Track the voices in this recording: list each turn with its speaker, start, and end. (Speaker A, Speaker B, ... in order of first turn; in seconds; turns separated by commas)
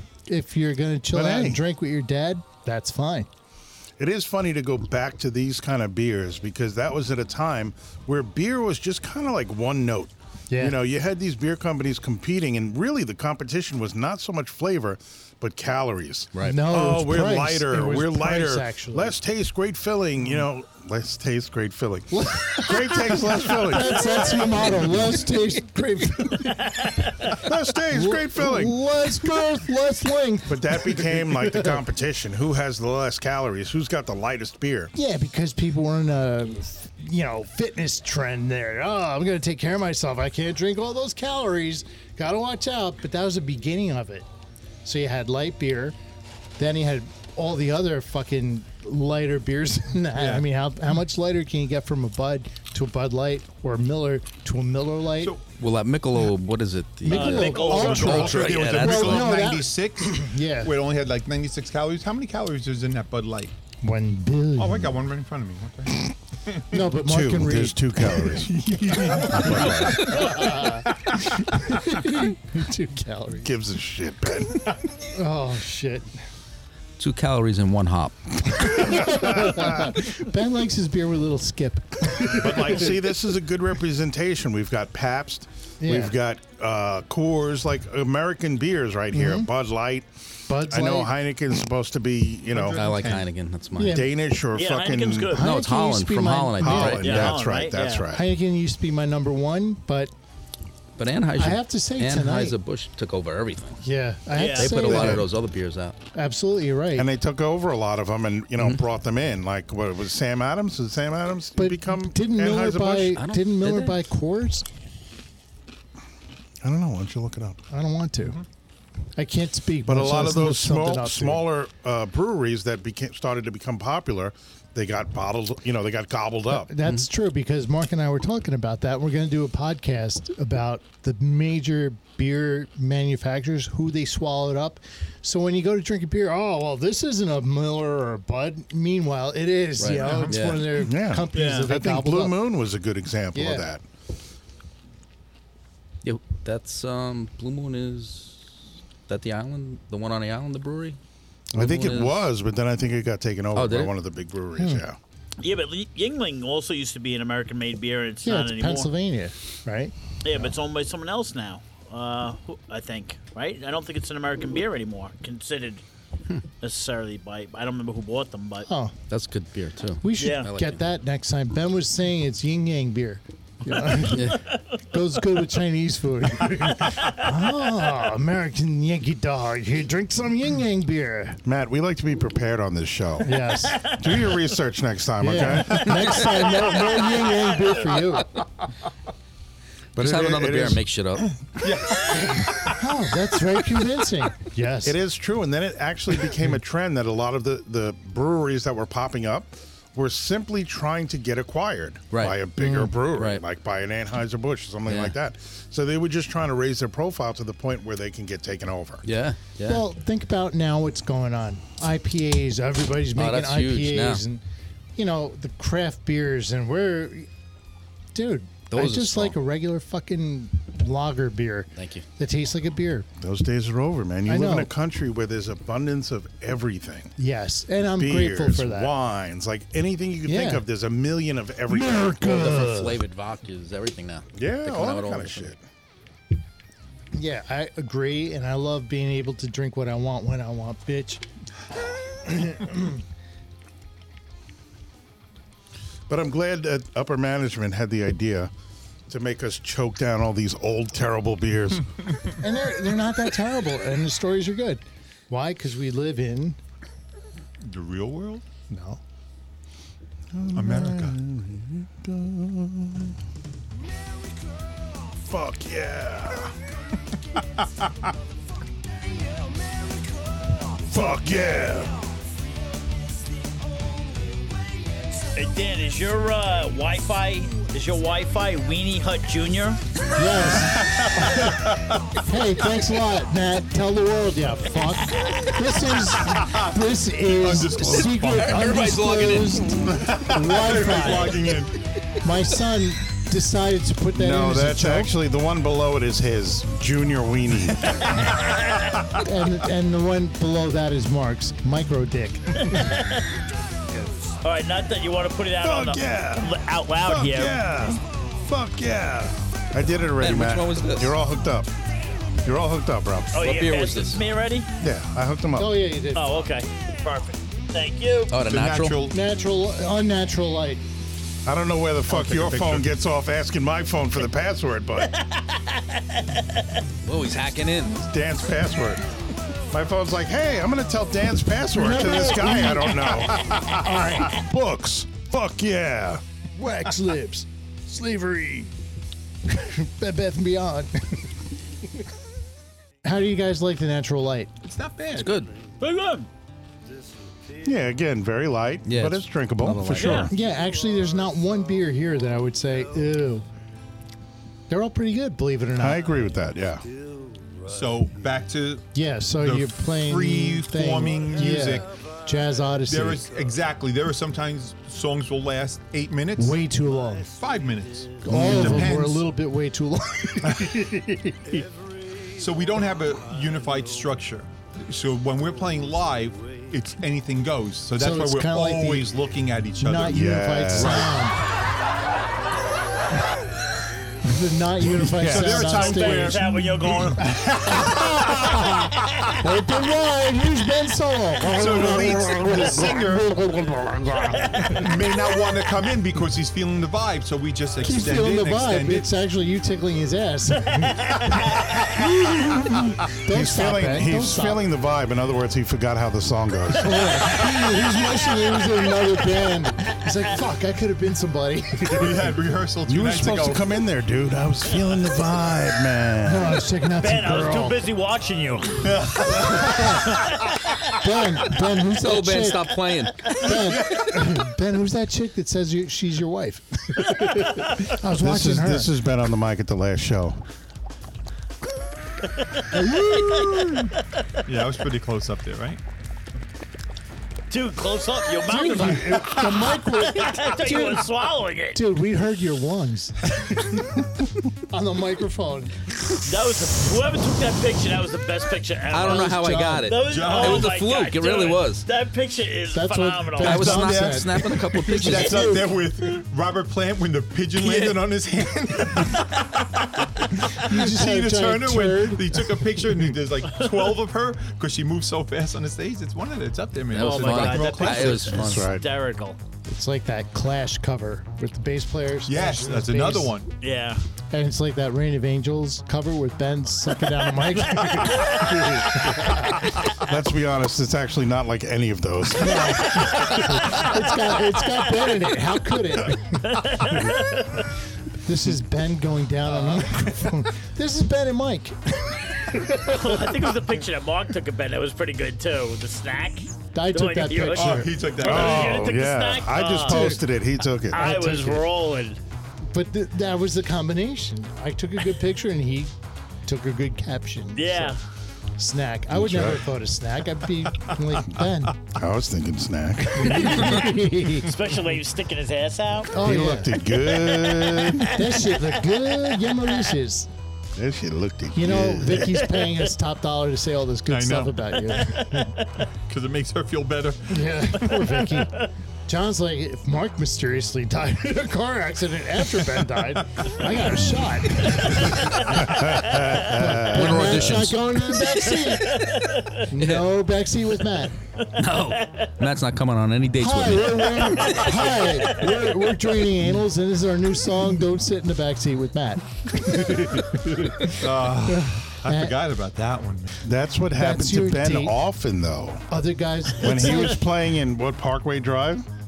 Speaker A: 0.3-3.3, Speaker B: 1.1-1.6, Speaker B: 4.0-24.9, Speaker A: 10.5-10.8, Speaker A: 16.4-19.2, Speaker A: 22.1-27.0, Speaker B: 27.3-28.8, Speaker A: 27.9-31.8, Speaker B: 30.5-34.9, Speaker A: 34.9-44.3, Speaker A: 44.8-46.0, Speaker A: 46.6-55.3, Speaker C: 50.1-50.5, Speaker D: 55.6-59.3, Speaker A: 57.0-60.7, Speaker E: 57.1-58.8, Speaker C: 57.3-63.5, Speaker A: 63.8-64.9, Speaker C: 64.5-66.8, Speaker A: 66.7-73.5, Speaker B: 67.0-70.2, Speaker C: 69.1-70.8, Speaker D: 69.5-70.3, Speaker B: 73.4-74.6, Speaker A: 75.1-76.1, Speaker D: 77.0-78.8, Speaker A: 78.5-83.0, Speaker B: 79.0-79.9, Speaker B: 82.3-90.1, Speaker A: 85.8-86.1, Speaker A: 89.1-89.5, Speaker A: 90.5-91.1, Speaker B: 90.6-92.9, Speaker C: 92.5-93.3, Speaker D: 92.7-94.0, Speaker A: 93.8-94.1, Speaker B: 93.9-95.4, Speaker E: 94.5-95.4, Speaker A: 95.3-97.2, Speaker D: 95.3-97.4, Speaker B: 96.6-98.3, Speaker E: 96.9-98.0, Speaker A: 98.1-100.1, Speaker D: 101.0-103.8, Speaker A: 101.3-102.6, Speaker A: 103.8-105.3, Speaker E: 104.3-104.8, Speaker D: 104.5-106.0, Speaker B: 104.9-105.2, Speaker A: 106.1-107.1, Speaker B: 107.0-113.2, Speaker A: 111.5-114.6, Speaker D: 113.2-114.0, Speaker B: 116.6-117.6, Speaker A: 117.7-118.4, Speaker A: 119.2-121.4, Speaker B: 119.8-126.7, Speaker A: 126.6-142.4, Speaker D: 139.8-140.7, Speaker C: 140.0-140.3, Speaker B: 140.8-143.8, Speaker E: 141.3-141.7, Speaker A: 143.3-143.7, Speaker D: 146.0-148.5, Speaker D: 149.1-151.0, Speaker B: 151.5-155.0, Speaker D: 151.5-152.2, Speaker D: 153.6-153.9, Speaker A: 154.6-154.8, Speaker E: 155.4-158.9, Speaker A: 158.2-159.9, Speaker E: 160.2-165.8, Speaker E: 166.6-168.7, Speaker A: 168.7-168.9, Speaker D: 169.1-170.8, Speaker A: 170.0-181.4, Speaker E: 170.2-170.5, Speaker D: 174.1-174.4, Speaker B: 181.4-186.2, Speaker A: 183.2-183.8, Speaker E: 183.8-184.2, Speaker A: 185.2-188.4, Speaker C: 185.7-186.2, Speaker B: 189.9-190.8, Speaker D: 189.9-191.3, Speaker C: 191.5-192.8, Speaker A: 192.2-195.0, Speaker B: 194.8-209.0, Speaker D: 202.1-202.4, Speaker A: 202.6-202.9, Speaker D: 203.1-203.4, Speaker D: 204.9-205.1, Speaker D: 209.1-209.8, Speaker A: 209.6-214.4, Speaker D: 213.1-214.2, Speaker A: 214.9-217.3, Speaker A: 218.1-223.1, Speaker D: 218.7-219.3, Speaker D: 221.8-222.1, Speaker B: 223.2-227.1, Speaker A: 224.3-224.7, Speaker A: 227.2-228.9, Speaker B: 227.9-232.2, Speaker A: 230.3-230.6, Speaker A: 231.7-233.0, Speaker D: 232.2-235.5, Speaker B: 234.3-235.6, Speaker A: 237.1-241.2, Speaker A: 242.1-243.0, Speaker B: 246.1-248.5, Speaker B: 249.1-251.9, Speaker A: 252.4-256.6, Speaker C: 257.6-258.4, Speaker A: 258.7-259.0, Speaker B: 260.3-263.1, Speaker C: 260.5-261.1, Speaker B: 265.2-266.6, Speaker B: 270.8-272.0, Speaker E: 275.4-279.8, Speaker A: 280.1-291.5, Speaker C: 280.4-282.2, Speaker C: 286.1-286.8, Speaker C: 287.4-288.8, Speaker D: 288.3-289.7, Speaker C: 289.8-291.7, Speaker A: 292.2-295.1, Speaker B: 294.1-298.1, Speaker C: 298.5-299.2, Speaker A: 299.1-302.9, Speaker E: 302.6-303.3, Speaker E: 304.4-307.6, Speaker B: 305.6-311.7, Speaker D: 310.2-311.1, Speaker B: 312.4-313.5, Speaker E: 313.3-314.7, Speaker D: 313.4-314.2, Speaker B: 314.8-315.9, Speaker A: 315.6-316.4, Speaker E: 316.1-318.3, Speaker D: 318.3-319.0, Speaker C: 318.4-319.1, Speaker A: 319.1-320.8, Speaker B: 321.4-325.2, Speaker C: 322.1-322.9, Speaker E: 325.1-326.4, Speaker D: 327.1-328.0, Speaker B: 327.9-329.0, Speaker B: 329.7-336.2, Speaker A: 331.7-334.4, Speaker A: 336.6-338.7, Speaker A: 339.4-341.3, Speaker A: 343.0-344.5, Speaker C: 344.6-345.3, Speaker D: 345.1-345.5, Speaker E: 345.8-346.3, Speaker B: 347.6-350.3, Speaker D: 348.9-350.3, Speaker E: 349.9-350.3, Speaker A: 350.3-353.4, Speaker A: 354.7-356.0, Speaker B: 355.8-356.9, Speaker C: 357.6-358.9, Speaker A: 358.9-363.2, Speaker C: 359.4-361.9, Speaker C: 362.9-366.6, Speaker A: 366.4-367.3, Speaker C: 367.3-369.3, Speaker A: 368.2-371.7, Speaker C: 370.5-370.8, Speaker C: 372.4-381.2, Speaker A: 378.0-379.1, Speaker A: 379.8-381.4, Speaker B: 380.1-381.1, Speaker A: 384.2-386.5, Speaker C: 385.0-388.7, Speaker B: 385.2-385.6, Speaker E: 385.6-387.4, Speaker A: 387.3-394.8, Speaker C: 391.5-393.3, Speaker C: 394.6-399.1, Speaker A: 397.8-404.7, Speaker B: 403.3-407.1, Speaker A: 406.8-412.3, Speaker C: 411.9-413.6, Speaker B: 412.9-416.6, Speaker A: 416.2-417.8, Speaker E: 417.0-420.8, Speaker C: 418.8-419.9, Speaker A: 419.3-420.3, Speaker A: 420.9-428.9, Speaker D: 421.9-423.3, Speaker C: 423.4-424.1, Speaker B: 428.1-430.4, Speaker A: 432.7-433.6, Speaker E: 433.1-433.7, Speaker C: 434.4-435.8, Speaker E: 437.5-439.4, Speaker A: 438.5-441.1, Speaker C: 438.9-439.7, Speaker E: 440.0-441.8, Speaker A: 441.7-444.1, Speaker A: 444.7-445.9, Speaker E: 446.2-453.7, Speaker D: 448.9-451.8, Speaker A: 449.1-449.9, Speaker C: 450.0-450.7, Speaker A: 452.7-455.6, Speaker D: 453.4-455.7, Speaker C: 453.5-468.4, Speaker D: 457.6-458.0, Speaker A: 460.6-463.0, Speaker E: 463.6-463.9, Speaker D: 466.9-468.8, Speaker E: 466.9-469.4, Speaker B: 467.9-468.8, Speaker A: 469.6-473.4, Speaker C: 472.3-473.5, Speaker E: 473.6-474.0, Speaker A: 474.3-479.7, Speaker E: 477.8-478.7, Speaker B: 479.9-483.1, Speaker A: 482.4-486.8, Speaker E: 486.4-487.7, Speaker A: 488.2-493.6, Speaker C: 489.5-490.0, Speaker E: 492.8-500.1, Speaker A: 496.7-497.9, Speaker C: 497.6-498.9, Speaker B: 498.2-501.2, Speaker A: 499.8-500.2, Speaker E: 500.9-502.2, Speaker A: 500.9-501.6, Speaker A: 502.7-505.9, Speaker A: 506.4-508.0, Speaker E: 507.5-508.0, Speaker A: 508.6-511.8, Speaker B: 509.1-509.7, Speaker B: 511.9-513.6, Speaker A: 513.1-514.5, Speaker E: 514.3-516.1, Speaker A: 516.1-516.8, Speaker B: 516.1-518.2, Speaker E: 517.2-518.1, Speaker A: 518.1-520.3, Speaker B: 520.7-522.4, Speaker A: 521.5-525.6, Speaker E: 522.3-522.8, Speaker C: 524.1-524.5, Speaker E: 525.2-525.5, Speaker C: 526.0-528.1, Speaker A: 527.3-539.1, Speaker E: 528.4-528.7, Speaker C: 533.4-533.6, Speaker E: 535.3-535.6, Speaker B: 535.5-537.2, Speaker D: 536.8-538.2, Speaker E: 538.6-539.6, Speaker A: 539.6-541.1, Speaker D: 539.7-540.1, Speaker E: 541.4-542.3, Speaker D: 541.5-544.7, Speaker A: 543.4-552.4, Speaker E: 544.4-546.1, Speaker C: 550.9-553.3, Speaker B: 553.4-555.9, Speaker A: 553.9-555.0, Speaker A: 555.9-557.2, Speaker B: 556.5-558.9